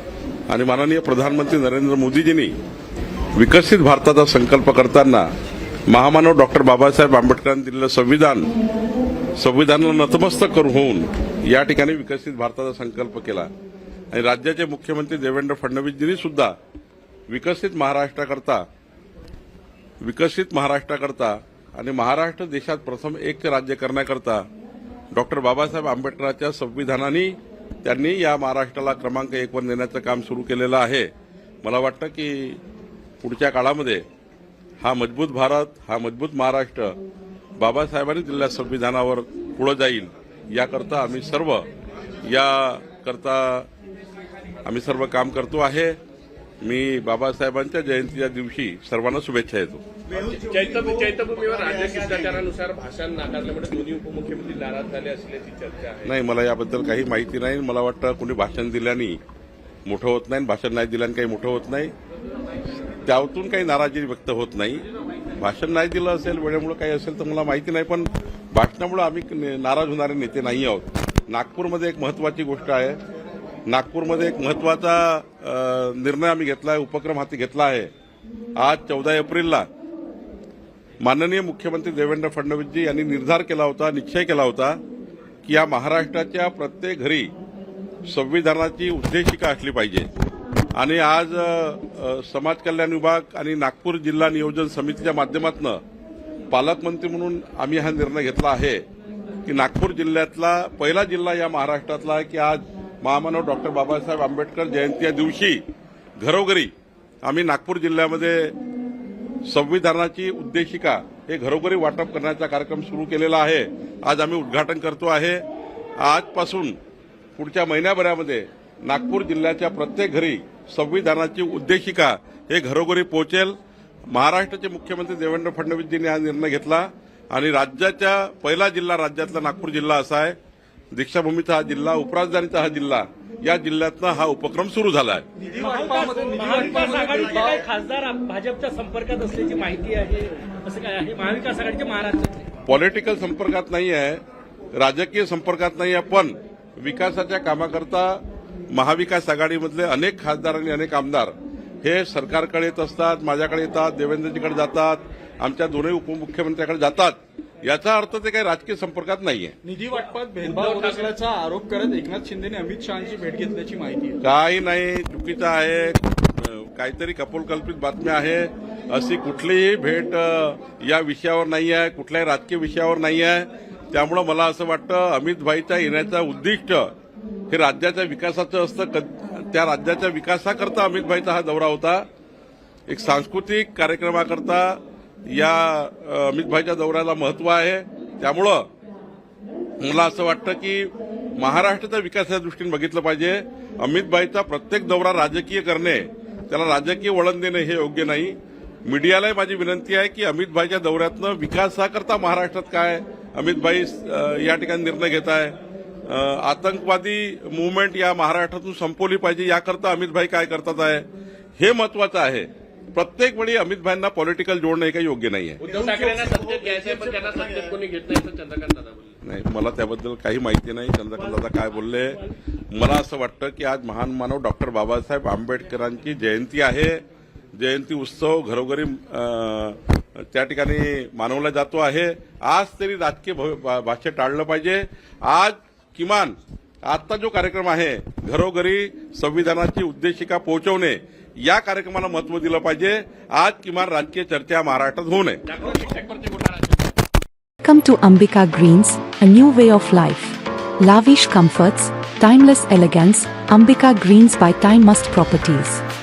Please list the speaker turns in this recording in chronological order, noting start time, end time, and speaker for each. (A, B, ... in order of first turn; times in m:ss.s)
0:00.5-0:02.5 A
0:03.4-0:05.3 A
0:05.9-0:08.5 A
0:09.4-0:13.5 A
0:14.1-0:16.6 A
0:17.3-0:18.6 A
0:20.0-0:24.5 A
0:25.1-0:31.1 A
0:31.6-0:32.6 A
0:33.2-0:34.0 A
0:34.8-0:37.0 A
0:37.6-0:41.7 A
0:42.2-0:43.7 A
0:44.6-0:46.0 A
0:46.6-0:49.8 A
0:50.1-0:56.1 B
0:56.0-0:59.2 A
0:59.9-1:01.9 A
1:03.0-1:04.8 A
1:05.4-1:13.0 A
1:13.7-1:17.9 A
1:18.6-1:19.7 A
1:21.0-1:24.8 A
1:25.4-1:27.3 A
1:28.1-1:30.1 A
1:30.8-1:35.8 A
1:36.5-1:38.8 A
1:39.5-1:45.6 A
1:46.2-1:46.7 A
1:47.2-1:48.6 A
1:49.5-1:55.4 A
1:56.0-1:56.8 A
1:57.4-2:03.6 A
2:04.1-2:10.4 A
2:10.9-2:15.3 A
2:15.4-2:17.7 C
2:15.6-2:22.5 D
2:22.7-2:24.2 A
2:24.8-2:39.6 A
2:39.6-2:44.2 C
2:40.4-2:41.1 B
2:44.2-2:56.9 A
2:57.5-3:02.1 A
3:02.9-3:08.7 A
3:09.8-3:31.1 A
3:31.6-3:35.7 A
3:35.6-3:39.2 B
3:35.8-3:36.3 C
3:39.2-3:47.0 A
3:47.6-4:05.4 A
4:05.5-4:06.9 B
4:07.6-4:15.8 E